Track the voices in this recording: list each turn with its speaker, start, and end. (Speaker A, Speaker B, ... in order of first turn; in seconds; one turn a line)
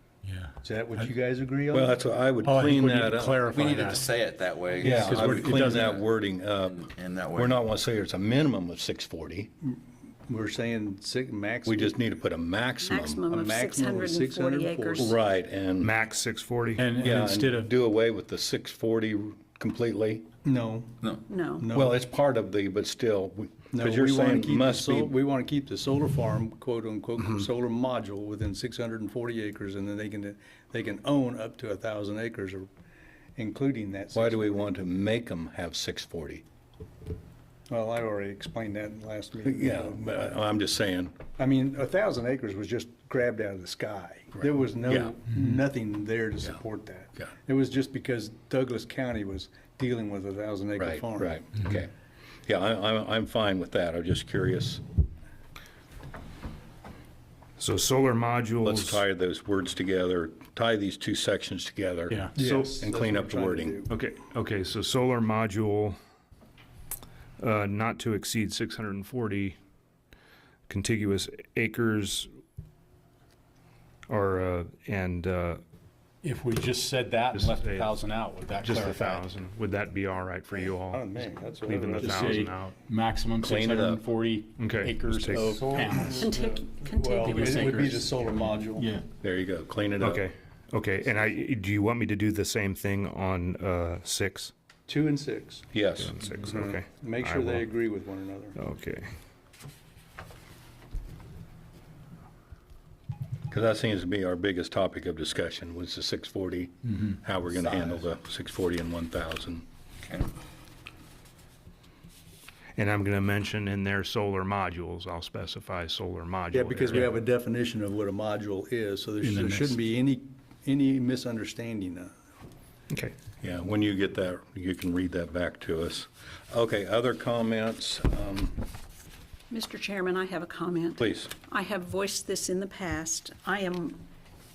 Speaker A: 0.2-1.1
Speaker B: 0.6-1.9
Speaker C: 1.7-3.4
Speaker A: 2.4-4.1
Speaker D: 3.5-6.0
Speaker A: 4.8-6.0
Speaker C: 4.8-9.5
Speaker D: 6.6-7.7
Speaker B: 9.6-12.0
Speaker C: 11.7-13.2
Speaker E: 12.8-15.2
Speaker B: 13.3-15.1
Speaker C: 15.0-15.9
Speaker F: 15.8-16.9
Speaker A: 16.8-17.7
Speaker C: 17.0-20.3
Speaker B: 20.4-21.9
Speaker E: 21.3-21.7
Speaker C: 21.7-25.1
Speaker B: 23.7-32.7
Speaker B: 33.4-34.6
Speaker C: 34.1-36.4
Speaker B: 37.7-40.4
Speaker C: 39.4-41.2
Speaker B: 41.4-51.5
Speaker C: 44.4-45.1
Speaker C: 50.8-51.9
Speaker C: 52.5-54.8
Speaker F: 57.6-59.0
Speaker C: 58.6-63.8
Speaker B: 62.4-63.9
Speaker F: 62.4-62.8
Speaker F: 63.9-66.0
Speaker F: 67.4-69.6
Speaker F: 70.7-72.3
Speaker F: 74.1-75.6
Speaker A: 76.2-79.2
Speaker F: 77.3-78.0
Speaker F: 78.6-82.8
Speaker B: 80.9-82.5
Speaker A: 82.0-86.3
Speaker C: 83.4-84.0
Speaker F: 84.6-86.0
Speaker B: 86.1-88.9
Speaker E: 86.2-88.0
Speaker A: 87.2-89.1
Speaker C: 89.2-90.2
Speaker F: 90.0-94.5
Speaker B: 94.9-95.7
Speaker C: 95.7-96.2
Speaker F: 96.0-97.7
Speaker B: 96.4-98.6
Speaker F: 98.6-99.1
Speaker C: 103.5-109.7
Speaker F: 112.8-117.1
Speaker B: 116.5-122.1
Speaker A: 119.2-119.8
Speaker C: 123.4-128.6
Speaker E: 129.5-134.0
Speaker C: 131.0-131.3